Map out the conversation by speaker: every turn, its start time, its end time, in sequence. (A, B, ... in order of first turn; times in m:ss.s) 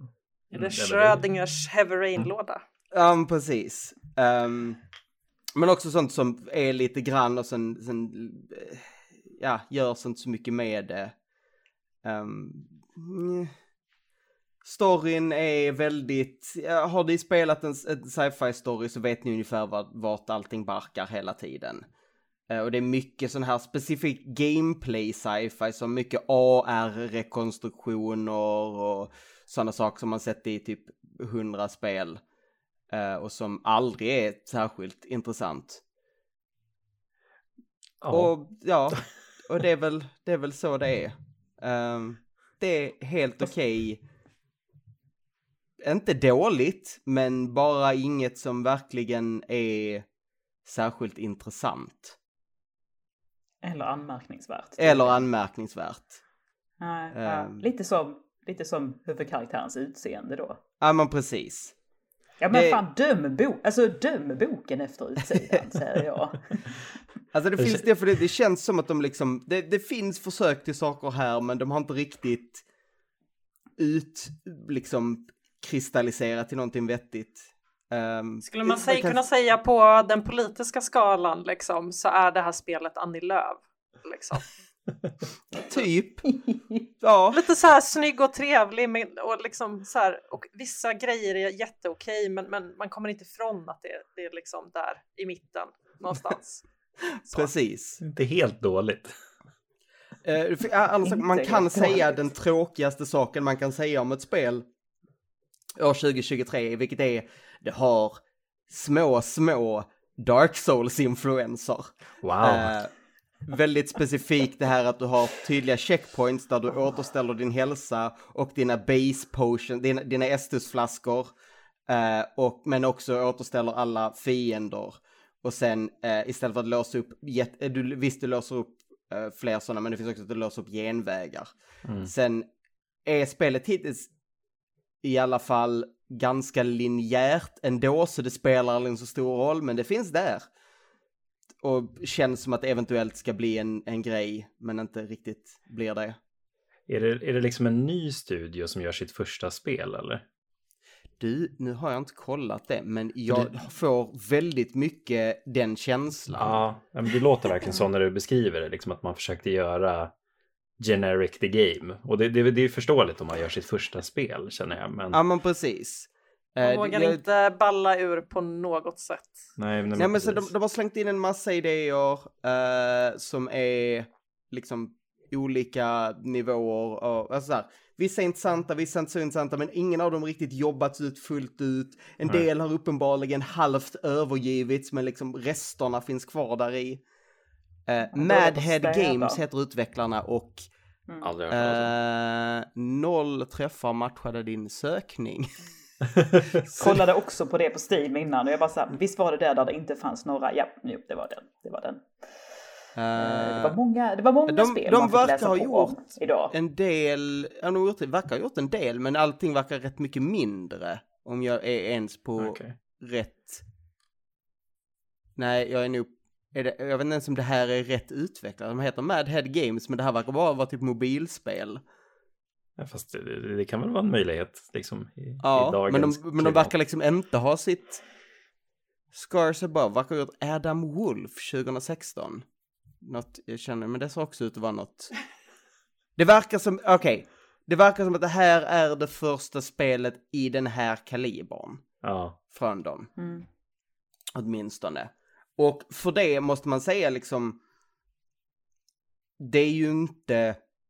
0:00.5-0:01.2 A
0:00.5-0:02.6 B
0:02.9-0:04.8 C
0:05.5-0:11.1 C
0:12.0-0:13.5 C
0:14.6-0:21.8 C
0:22.5-0:32.2 C
0:32.9-0:35.8 C
0:38.0-0:38.3 A
0:38.1-0:44.0 C
0:45.8-0:50.0 C
0:50.6-0:52.2 C
0:53.6-0:55.2 D
0:54.8-0:56.2 C
0:56.8-1:00.6 D
0:57.1-0:57.6 C
1:00.8-1:01.7 C
1:02.4-1:06.6 D
1:02.5-1:02.8 C
1:07.3-1:12.6 C
1:07.6-1:07.8 A
1:13.8-1:19.2 C
1:18.5-1:24.5 B
1:25.5-1:26.2 C
1:26.2-1:26.9 D
1:27.0-1:27.4 C
1:27.3-1:36.6 B
1:37.2-1:38.0 C
1:37.2-1:37.5 B
1:38.0-1:39.1 A
1:40.2-1:44.6 C
1:41.0-1:42.2 D
1:45.8-1:52.9 C
1:52.2-1:52.8 A
1:53.5-2:01.3 C
2:01.9-2:11.5 C
2:11.8-2:12.1 A
2:12.0-2:12.5 C
2:13.0-2:14.1 C
2:15.0-2:20.5 C
2:21.6-2:26.2 C
2:26.9-2:30.2 A
2:31.2-2:36.6 C
2:33.3-2:33.6 A
2:36.3-2:40.1 A
2:40.8-2:45.2 A
2:45.1-2:47.2 C
2:46.6-2:49.4 B
2:49.6-2:50.5 A
2:49.9-3:07.0 C
3:07.9-3:10.7 C
3:08.1-3:09.4 D
3:11.2-3:11.9 A
3:11.5-3:15.6 C
3:16.7-3:22.1 D
3:22.9-3:23.8 C
3:23.2-3:26.5 D
3:24.4-3:33.6 C
3:32.4-3:32.7 A
3:35.4-3:41.8 C
3:42.8-3:46.7 A
3:45.4-3:48.0 C
3:49.1-3:52.4 C
3:53.0-3:55.1 C
3:56.2-4:01.8 C
4:02.0-4:02.4 A
4:02.5-4:03.1 C
4:03.2-4:03.4 D
4:04.3-4:07.6 C
4:09.4-4:10.6 C